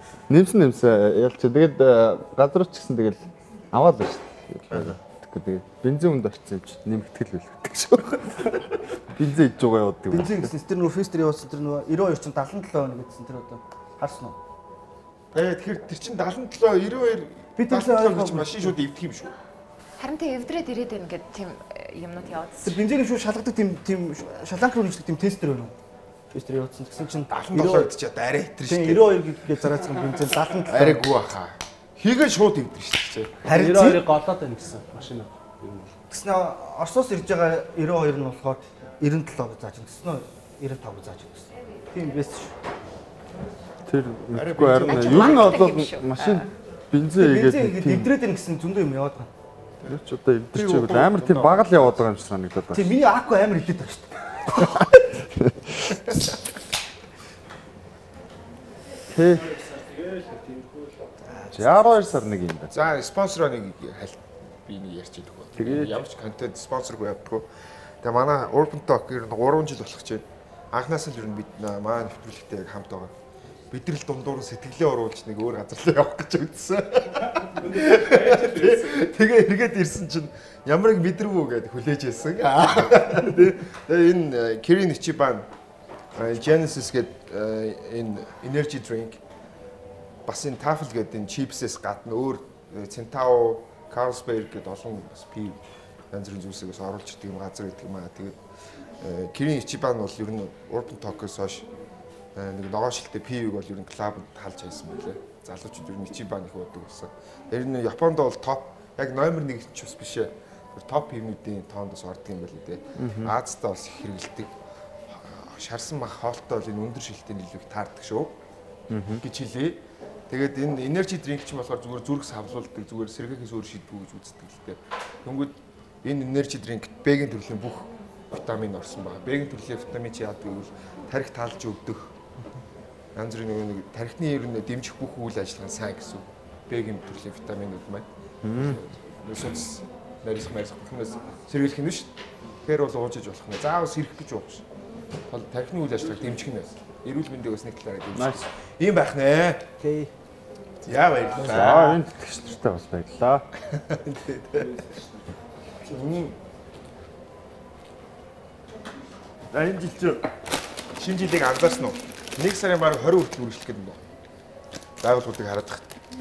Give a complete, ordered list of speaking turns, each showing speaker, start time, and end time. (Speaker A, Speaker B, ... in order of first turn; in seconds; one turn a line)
Speaker A: 0.3-10.5
Speaker B: 10.1-14.4
Speaker C: 15.3-19.3
Speaker B: 17.6-18.7
Speaker D: 20.0-22.8
Speaker B: 22.6-25.7
Speaker B: 26.3-27.9
Speaker C: 27.3-29.2
Speaker B: 28.6-31.1
Speaker C: 30.6-33.4
Speaker B: 33.4-34.0
Speaker E: 33.5-35.9
Speaker B: 36.1-42.5
Speaker A: 43.9-48.1
Speaker C: 44.3-45.6
Speaker D: 44.8-46.5
Speaker B: 47.1-49.3
Speaker A: 49.9-52.9
Speaker C: 50.5-52.1
Speaker B: 52.7-54.9
Speaker A: 54.6-56.0
Speaker A: 59.1-59.5
Speaker E: 59.3-61.1
Speaker A: 61.5-62.7
Speaker C: 62.7-67.5
Speaker A: 65.5-66.0
Speaker C: 68.0-73.1
Speaker C: 73.7-85.5
Speaker E: 77.6-78.9
Speaker C: 86.1-89.2
Speaker C: 90.2-98.4
Speaker C: 99.0-101.7
Speaker C: 102.3-114.5
Speaker A: 113.0-113.3
Speaker C: 115.1-118.4
Speaker A: 118.9-119.2
Speaker C: 119.2-132.1
Speaker C: 133.1-142.1
Speaker A: 138.4-138.8
Speaker C: 142.6-144.6
Speaker C: 145.3-149.6
Speaker A: 148.1-148.4
Speaker B: 149.8-150.1
Speaker C: 150.8-152.0
Speaker A: 151.3-153.5
Speaker C: 153.7-154.7
Speaker C: 155.8-156.4
Speaker C: 159.5-160.3
Speaker C: 160.9-164.0
Speaker C: 165.0-166.0